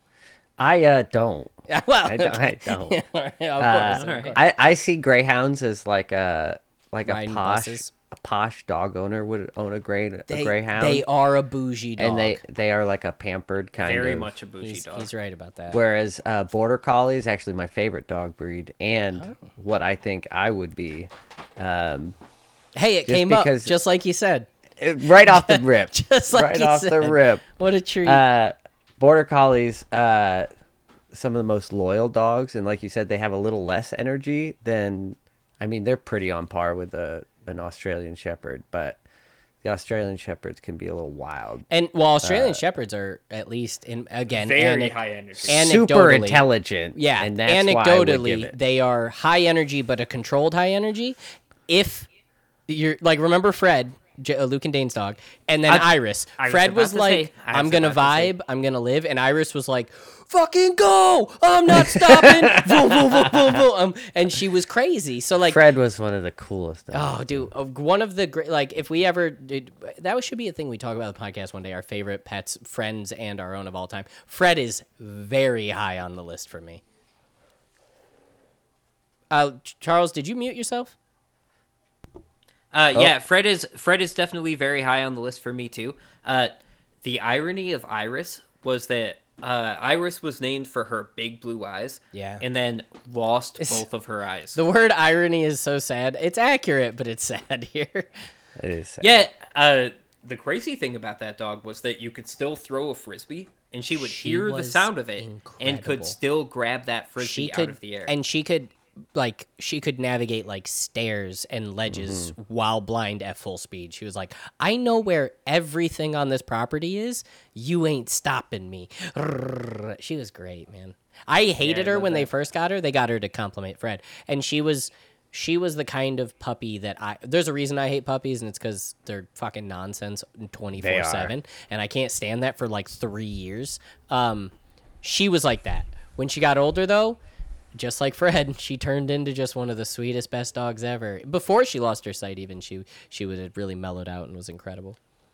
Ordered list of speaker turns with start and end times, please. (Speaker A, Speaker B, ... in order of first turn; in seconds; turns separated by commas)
Speaker A: 0.6-3.0, Speaker B: 1.7-4.4, Speaker A: 3.6-11.1, Speaker C: 3.9-4.4, Speaker B: 7.1-7.9, Speaker B: 10.3-12.4, Speaker A: 12.0-14.3, Speaker C: 13.8-15.1, Speaker B: 14.6-15.8, Speaker A: 15.7-22.1, Speaker B: 19.2-19.5, Speaker B: 22.8-24.5, Speaker A: 23.1-23.7, Speaker A: 24.8-27.4, Speaker B: 25.2-28.2, Speaker A: 28.1-30.5, Speaker A: 31.1-39.0, Speaker A: 39.6-41.7, Speaker B: 41.7-45.0, Speaker A: 42.2-42.6, Speaker C: 44.4-45.6, Speaker A: 45.4-48.5, Speaker B: 45.5-52.1, Speaker B: 52.7-65.6, Speaker C: 56.4-58.3, Speaker A: 61.7-63.6, Speaker A: 65.5-67.2, Speaker B: 66.9-76.8, Speaker B: 79.3-81.0, Speaker C: 82.7-86.5, Speaker C: 87.0-94.6, Speaker B: 92.1-92.4, Speaker B: 94.5-98.2, Speaker A: 98.6-99.1, Speaker C: 99.0-108.1, Speaker B: 104.0-106.2, Speaker B: 107.2-137.2, Speaker A: 111.9-112.3, Speaker C: 121.6-122.3, Speaker A: 130.8-131.3, Speaker B: 137.8-145.0